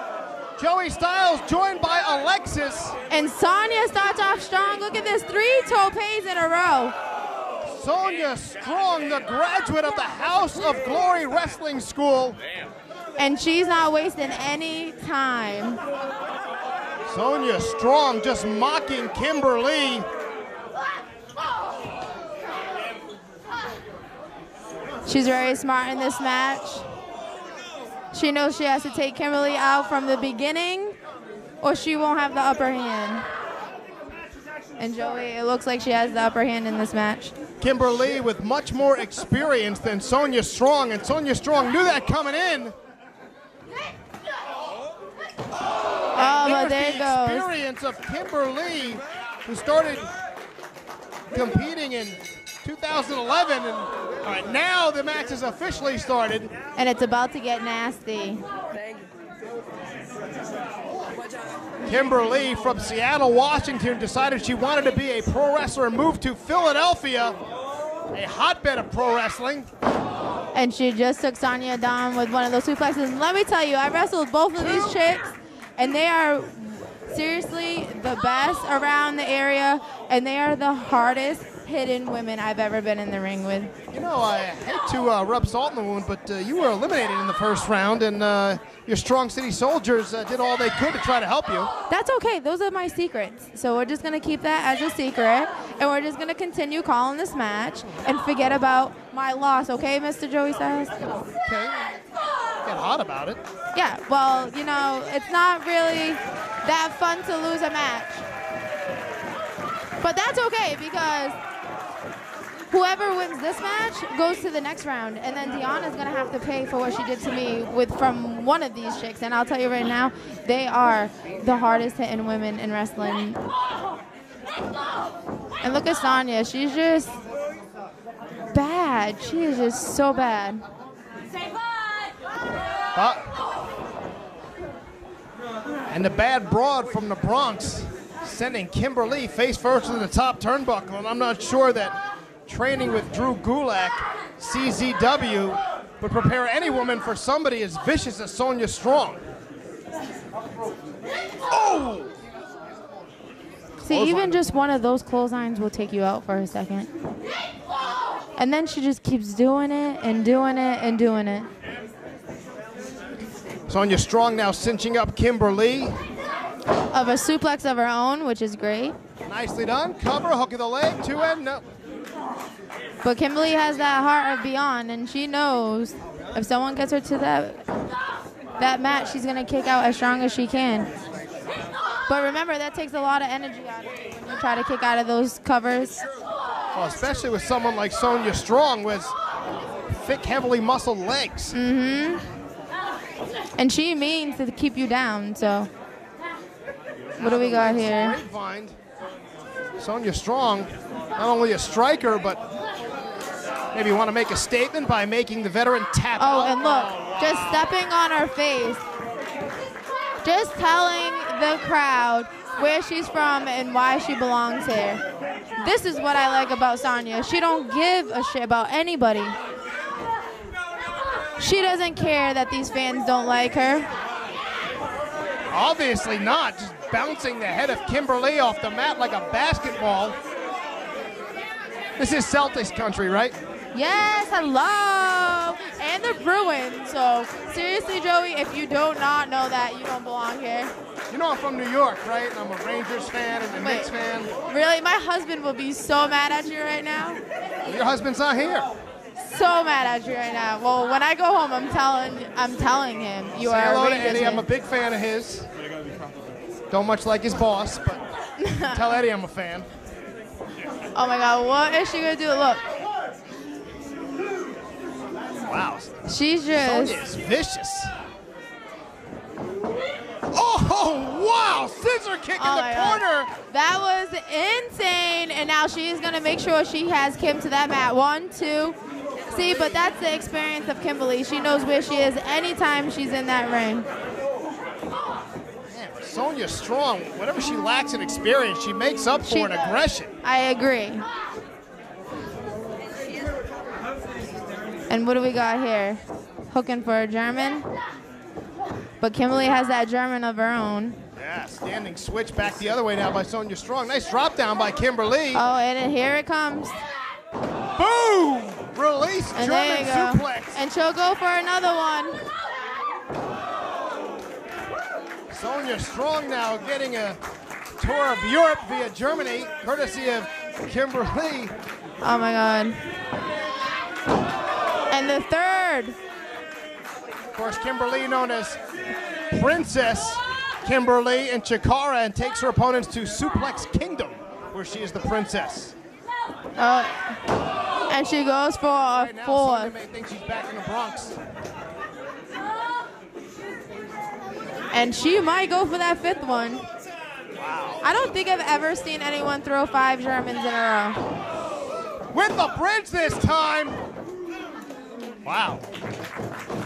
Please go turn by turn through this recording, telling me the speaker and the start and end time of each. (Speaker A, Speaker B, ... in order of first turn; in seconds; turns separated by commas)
Speaker A: 0.6-3.0, Speaker B: 3.1-6.9, Speaker A: 7.6-12.4, Speaker B: 13.2-15.8, Speaker A: 17.1-20.1, Speaker B: 25.1-26.9, Speaker B: 28.1-31.0, Speaker B: 31.6-33.3, Speaker B: 34.8-37.3, Speaker A: 37.6-42.8, Speaker B: 46.1-47.5, Speaker A: 46.1-50.1, Speaker A: 51.3-56.5, Speaker B: 56.8-58.4, Speaker A: 61.9-67.4, Speaker A: 68.1-69.7, Speaker B: 70.5-83.7, Speaker A: 74.5-75.0, Speaker A: 83.9-91.7, Speaker B: 91.9-101.0, Speaker A: 101.5-101.9, Speaker A: 102.6-103.4, Speaker B: 103.8-108.2, Speaker B: 110.0-111.4, Speaker B: 112.7-123.4, Speaker B: 125.6-127.2, Speaker B: 128.5-130.6, Speaker A: 132.9-133.3, Speaker A: 135.9-142.0, Speaker A: 142.5-149.2, Speaker A: 151.5-152.1, Speaker B: 153.8-156.9, Speaker A: 153.9-154.5, Speaker B: 158.4-161.5, Speaker A: 163.7-166.0, Speaker B: 166.9-169.0, Speaker A: 169.3-171.7, Speaker B: 173.0-177.6, Speaker B: 178.6-180.9, Speaker B: 182.1-186.0, Speaker A: 186.7-189.2, Speaker A: 189.9-191.6, Speaker B: 191.6-192.3, Speaker B: 193.6-195.7, Speaker A: 197.2-198.8, Speaker B: 197.2-198.2, Speaker A: 199.8-202.4, Speaker A: 203.7-207.7, Speaker B: 206.2-208.8, Speaker B: 210.2-215.0, Speaker B: 215.6-219.4, Speaker B: 221.4-223.9, Speaker A: 225.5-230.2, Speaker A: 232.0-233.4, Speaker B: 233.7-240.7, Speaker A: 241.1-244.3, Speaker B: 243.6-243.9, Speaker B: 244.5-247.2, Speaker A: 247.7-248.7, Speaker B: 249.2-254.5, Speaker A: 253.4-255.5, Speaker A: 256.7-258.1, Speaker B: 258.4-258.9, Speaker A: 258.6-259.7, Speaker B: 260.9-262.6, Speaker A: 265.5-265.9, Speaker B: 266.1-267.0, Speaker A: 266.6-267.9, Speaker A: 270.3-273.3, Speaker B: 272.4-278.8, Speaker B: 279.3-283.9, Speaker A: 285.7-290.1, Speaker B: 289.2-291.1, Speaker B: 294.9-297.7, Speaker B: 299.0-301.0, Speaker A: 301.2-305.4, Speaker B: 305.3-306.8, Speaker A: 307.8-310.6, Speaker B: 309.4-312.2, Speaker A: 315.3-317.2, Speaker A: 317.8-321.6, Speaker B: 322.0-322.8, Speaker B: 324.9-326.0, Speaker A: 327.3-328.6, Speaker A: 329.3-335.7, Speaker B: 336.6-337.3, Speaker B: 337.9-339.8, Speaker A: 338.9-341.2, Speaker B: 344.7-346.6, Speaker A: 347.4-347.8, Speaker B: 347.8-351.0, Speaker A: 352.1-353.8, Speaker A: 355.2-355.6